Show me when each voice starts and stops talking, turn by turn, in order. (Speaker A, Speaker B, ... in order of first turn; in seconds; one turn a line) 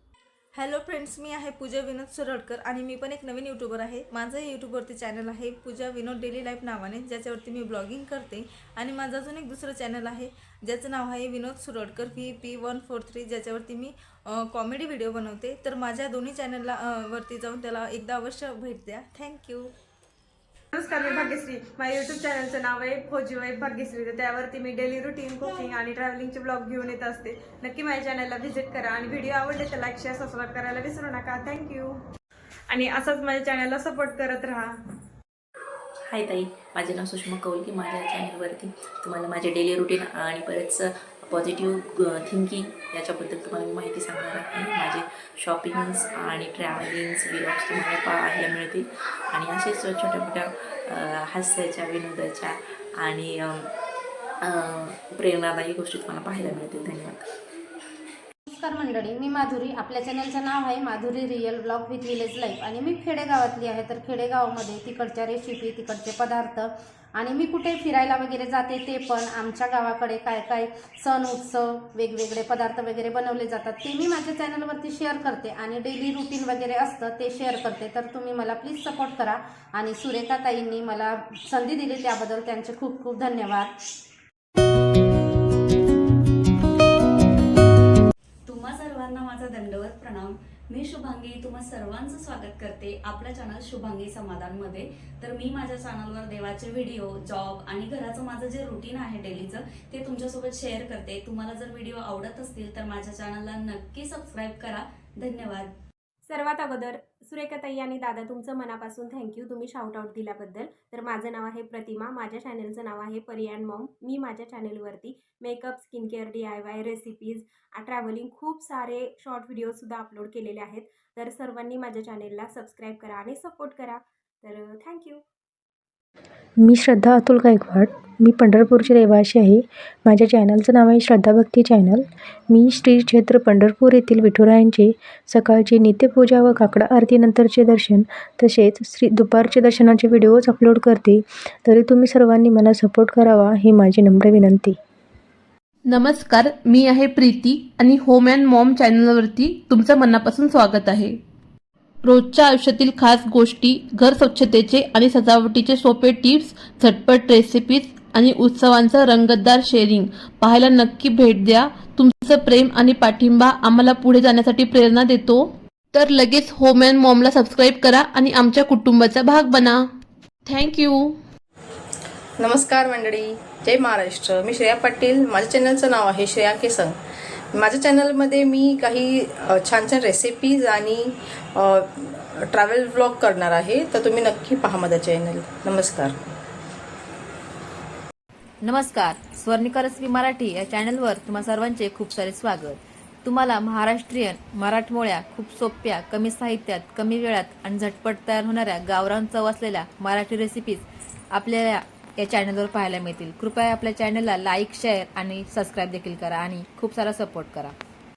Speaker A: 0.5-19.7
Speaker B: 20.7-31.9
Speaker B: 32.7-34.7
Speaker C: 36.1-53.7
Speaker C: 54.4-57.2
Speaker D: 58.5-83.7
Speaker E: 88.5-105.7
Speaker F: 106.3-125.2
Speaker G: 126.6-144.8
Speaker H: 145.8-151.2
Speaker H: 152.0-169.8
Speaker H: 170.5-171.2
Speaker I: 172.4-177.0
Speaker I: 177.5-186.2
Speaker J: 188.6-207.7